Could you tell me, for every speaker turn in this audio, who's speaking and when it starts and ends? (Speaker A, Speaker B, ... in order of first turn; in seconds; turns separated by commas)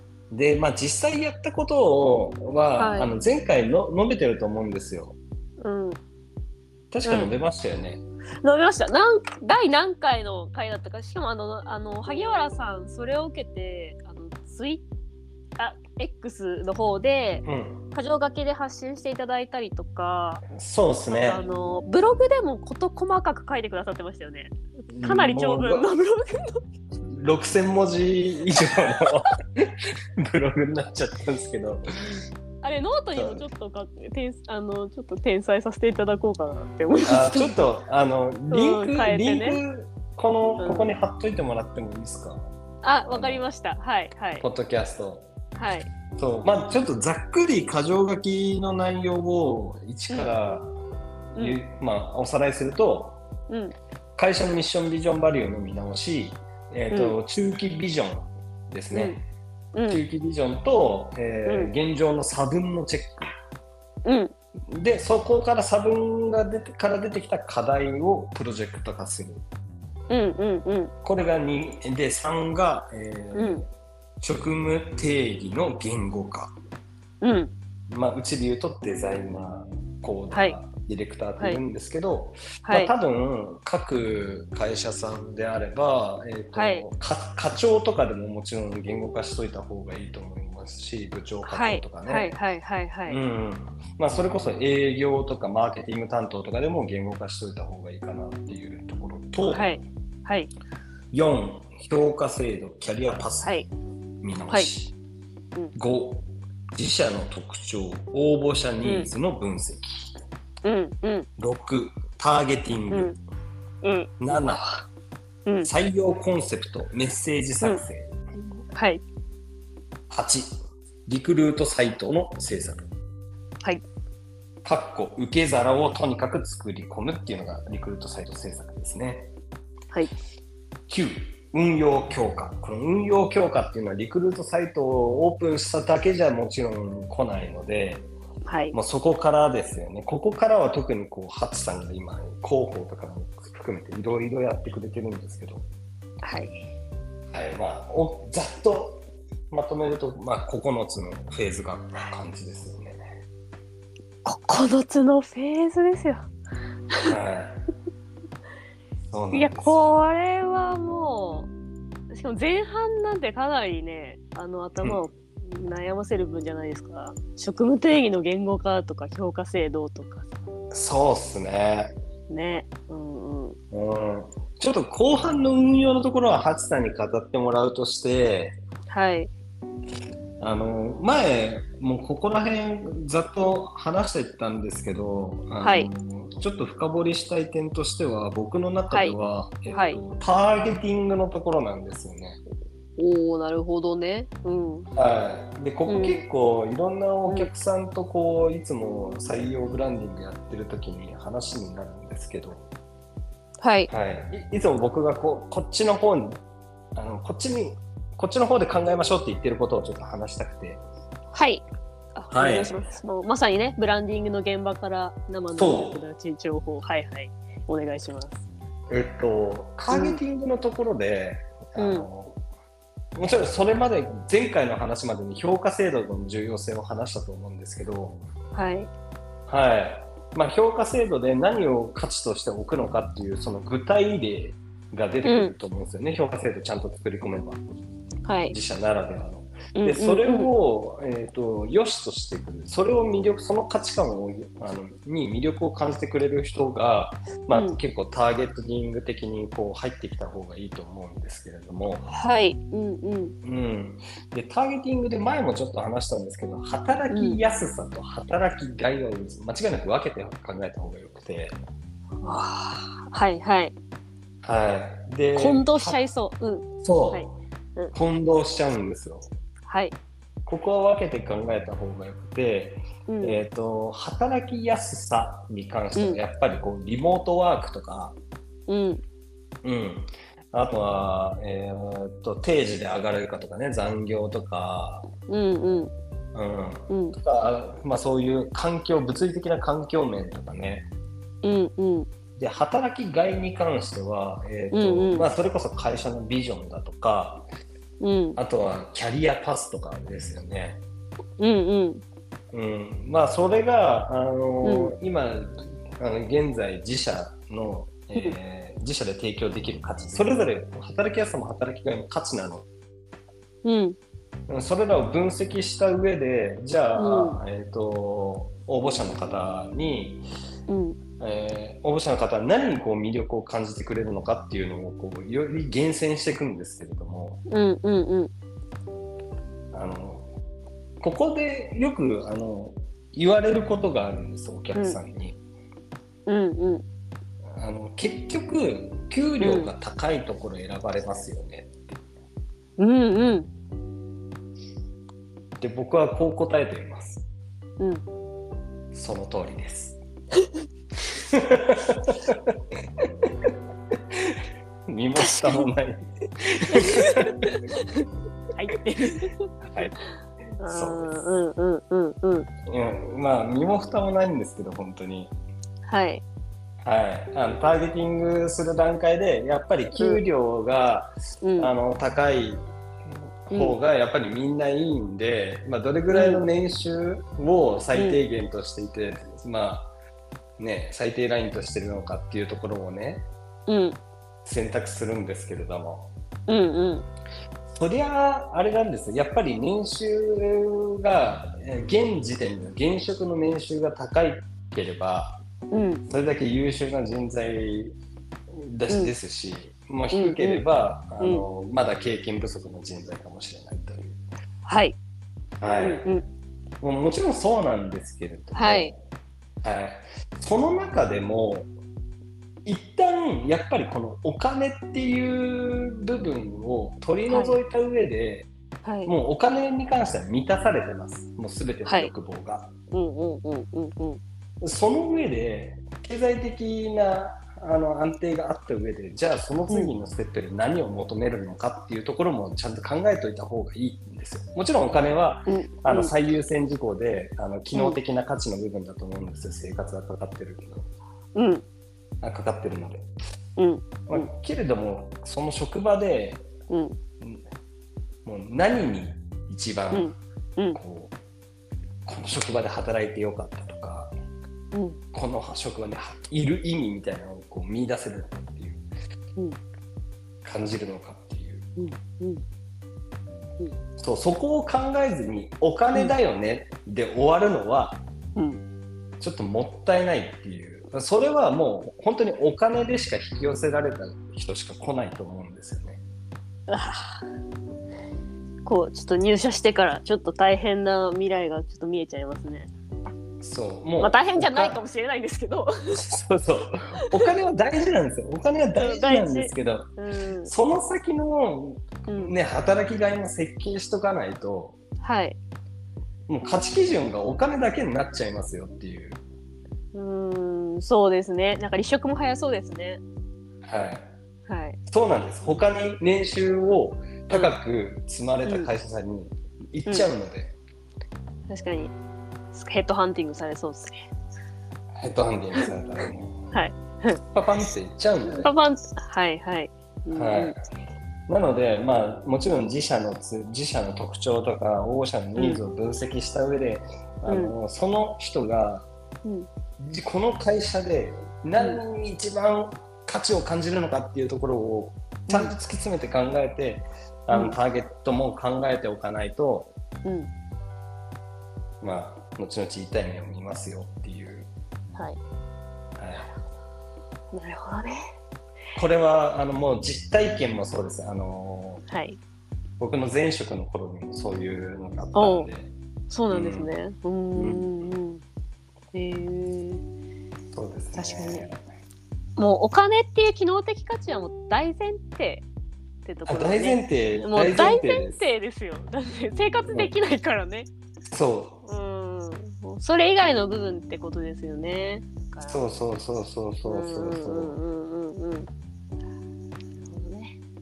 Speaker A: 0.3-5.2, Speaker B: 2.8-3.1, Speaker B: 5.6-6.0, Speaker A: 6.9-8.0, Speaker B: 7.0-7.3, Speaker B: 8.4-14.8, Speaker B: 15.6-20.4, Speaker A: 17.4-17.8, Speaker A: 20.5-21.4, Speaker B: 21.1-26.6, Speaker A: 24.9-25.9, Speaker A: 27.1-32.2, Speaker B: 32.6-37.6, Speaker A: 33.1-33.4, Speaker A: 37.1-42.5, Speaker B: 38.5-39.6, Speaker B: 40.6-41.0, Speaker B: 42.8-44.4, Speaker A: 43.1-43.4, Speaker A: 44.4-45.3, Speaker B: 45.5-45.9, Speaker A: 46.1-50.7, Speaker A: 51.4-53.2, Speaker B: 53.5-53.7, Speaker A: 54.1-59.2, Speaker B: 56.9-57.2, Speaker B: 58.9-59.2, Speaker B: 59.7-60.0, Speaker A: 59.9-63.3, Speaker B: 61.4-61.7, Speaker B: 64.0-64.3, Speaker A: 64.7-69.4, Speaker B: 70.1-70.9, Speaker A: 71.0-73.7, Speaker B: 73.3-73.6, Speaker A: 74.2-76.5, Speaker B: 77.2-77.5, Speaker A: 77.9-92.3, Speaker B: 82.6-82.9, Speaker B: 86.5-86.8, Speaker B: 91.4-93.2, Speaker A: 93.1-99.7, Speaker B: 99.4-100.5, Speaker A: 101.1-103.6, Speaker A: 104.2-104.9, Speaker A: 105.7-110.1, Speaker B: 108.8-109.1, Speaker B: 110.6-111.3, Speaker A: 111.4-113.1, Speaker B: 112.9-113.2, Speaker B: 113.8-114.1, Speaker A: 114.2-114.9, Speaker A: 115.6-118.1, Speaker B: 118.7-119.0, Speaker A: 120.1-122.9, Speaker A: 124.6-129.3, Speaker A: 130.9-138.1, Speaker B: 138.4-138.8, Speaker A: 138.7-145.7, Speaker B: 146.2-146.6, Speaker A: 147.3-153.0, Speaker B: 154.2-156.2, Speaker A: 157.0-157.6, Speaker A: 159.1-159.9, Speaker B: 159.3-161.5, Speaker B: 162.1-170.3, Speaker A: 170.7-171.9, Speaker B: 172.3-173.6, Speaker A: 173.7-178.6, Speaker B: 178.9-179.3, Speaker A: 180.4-192.4, Speaker B: 185.6-185.9, Speaker B: 188.9-189.2, Speaker B: 189.7-190.0, Speaker B: 193.0-194.9, Speaker A: 194.9-202.7, Speaker B: 195.9-196.2, Speaker B: 203.6-203.9, Speaker A: 203.9-206.4, Speaker A: 206.9-210.8, Speaker B: 211.3-211.6, Speaker B: 212.2-218.4, Speaker A: 212.3-212.8, Speaker A: 215.6-216.0, Speaker A: 218.9-222.4, Speaker B: 219.9-220.2, Speaker B: 221.8-222.1, Speaker A: 223.1-228.2, Speaker B: 228.5-228.9, Speaker A: 229.5-237.6, Speaker B: 235.2-235.5, Speaker B: 238.2-238.5, Speaker A: 238.5-252.1, Speaker B: 239.7-240.5, Speaker B: 247.5-247.8, Speaker B: 252.1-253.3, Speaker A: 253.4-261.6, Speaker B: 257.1-257.4, Speaker B: 262.2-263.7, Speaker A: 264.4-266.0, Speaker B: 265.3-267.9, Speaker A: 266.8-267.3, Speaker A: 267.9-269.3, Speaker B: 269.7-269.9, Speaker A: 270.4-278.1, Speaker B: 273.1-273.4, Speaker B: 275.9-276.2, Speaker B: 278.7-279.0, Speaker A: 279.6-285.1, Speaker B: 285.3-285.9, Speaker A: 286.3-290.9, Speaker B: 286.9-287.2, Speaker B: 291.4-292.1, Speaker A: 292.4-297.4, Speaker B: 294.7-295.3, Speaker B: 298.0-298.4, Speaker A: 298.4-300.8, Speaker B: 301.4-302.0, Speaker A: 302.5-312.6, Speaker B: 304.6-304.9, Speaker B: 313.6-314.0, Speaker A: 314.5-320.2, Speaker B: 316.9-317.4, Speaker B: 320.7-321.0, Speaker A: 321.2-327.4, Speaker B: 327.5-328.3, Speaker A: 329.7-330.3, Speaker A: 331.0-335.4, Speaker B: 336.3-336.8, Speaker A: 337.5-342.0, Speaker B: 339.4-339.7, Speaker B: 342.8-343.5, Speaker A: 345.6-347.2, Speaker B: 347.8-348.0, Speaker A: 348.9-350.0, Speaker A: 351.1-353.3, Speaker A: 354.1-357.5, Speaker B: 355.2-355.7, Speaker B: 356.7-359.4, Speaker A: 359.6-359.9, Speaker B: 360.6-362.5, Speaker A: 360.7-361.1, Speaker A: 362.6-365.3, Speaker B: 365.9-366.2, Speaker A: 366.8-372.6, Speaker B: 369.9-370.2, Speaker B: 371.4-371.7, Speaker A: 373.4-379.9, Speaker B: 376.1-376.4, Speaker B: 377.9-378.2, Speaker A: 380.6-383.2, Speaker B: 383.7-384.0, Speaker A: 384.4-386.1, Speaker B: 386.5-387.1, Speaker A: 387.7-395.4, Speaker B: 395.7-396.0, Speaker A: 396.1-397.9, Speaker A: 398.5-404.2, Speaker B: 400.1-400.6, Speaker B: 401.2-401.4, Speaker B: 404.6-405.0, Speaker A: 405.6-406.0, Speaker B: 405.8-406.2, Speaker A: 406.8-408.9, Speaker B: 408.5-408.9, Speaker A: 409.6-411.7, Speaker A: 412.6-418.5, Speaker B: 417.3-417.6, Speaker B: 418.8-419.1, Speaker A: 419.1-422.7, Speaker B: 421.9-422.1, Speaker B: 422.9-424.2, Speaker A: 424.6-440.9, Speaker B: 435.5-436.1, Speaker B: 437.7-438.0, Speaker B: 441.3-441.6, Speaker A: 442.2-443.1, Speaker B: 443.6-444.3, Speaker A: 444.1-446.4, Speaker B: 446.7-446.9, Speaker A: 448.2-450.1, Speaker B: 449.9-450.8, Speaker A: 450.7-451.1, Speaker A: 452.1-454.1, Speaker B: 454.7-455.0, Speaker A: 455.1-458.8, Speaker A: 460.4-461.7, Speaker B: 461.8-462.4, Speaker A: 464.0-468.0, Speaker B: 468.4-468.6, Speaker A: 469.2-476.0, Speaker B: 476.7-477.2, Speaker B: 478.6-482.7, Speaker A: 483.4-484.8, Speaker B: 484.0-486.0, Speaker A: 485.9-489.9, Speaker B: 488.8-490.5, Speaker A: 490.5-494.8, Speaker B: 492.1-492.3, Speaker B: 495.0-495.4, Speaker A: 496.3-499.2, Speaker B: 499.9-503.0, Speaker A: 503.6-504.1, Speaker B: 504.5-504.8, Speaker A: 504.9-510.5, Speaker B: 508.4-508.7, Speaker B: 511.5-511.9, Speaker B: 512.5-514.0, Speaker A: 515.0-516.5, Speaker B: 516.5-517.2, Speaker A: 517.3-518.5, Speaker B: 518.3-520.5, Speaker A: 520.1-520.5, Speaker A: 521.3-528.9, Speaker B: 525.4-525.6, Speaker B: 527.3-527.5, Speaker A: 529.8-539.7, Speaker B: 535.3-535.5, Speaker B: 537.3-537.5, Speaker A: 541.8-544.5, Speaker A: 546.0-546.3, Speaker B: 547.3-548.0, Speaker A: 548.8-551.8, Speaker B: 551.9-552.2, Speaker A: 552.8-555.7, Speaker B: 555.1-555.5, Speaker B: 556.1-558.2, Speaker A: 556.3-556.7, Speaker A: 557.3-557.7, Speaker B: 558.9-559.8, Speaker A: 560.5-561.6, Speaker B: 560.9-561.5, Speaker B: 562.4-565.5, Speaker B: 566.0-570.7, Speaker A: 566.2-568.2, Speaker A: 571.1-571.6, Speaker B: 571.6-575.6, Speaker A: 575.5-577.6, Speaker B: 576.6-578.5, Speaker B: 579.8-580.4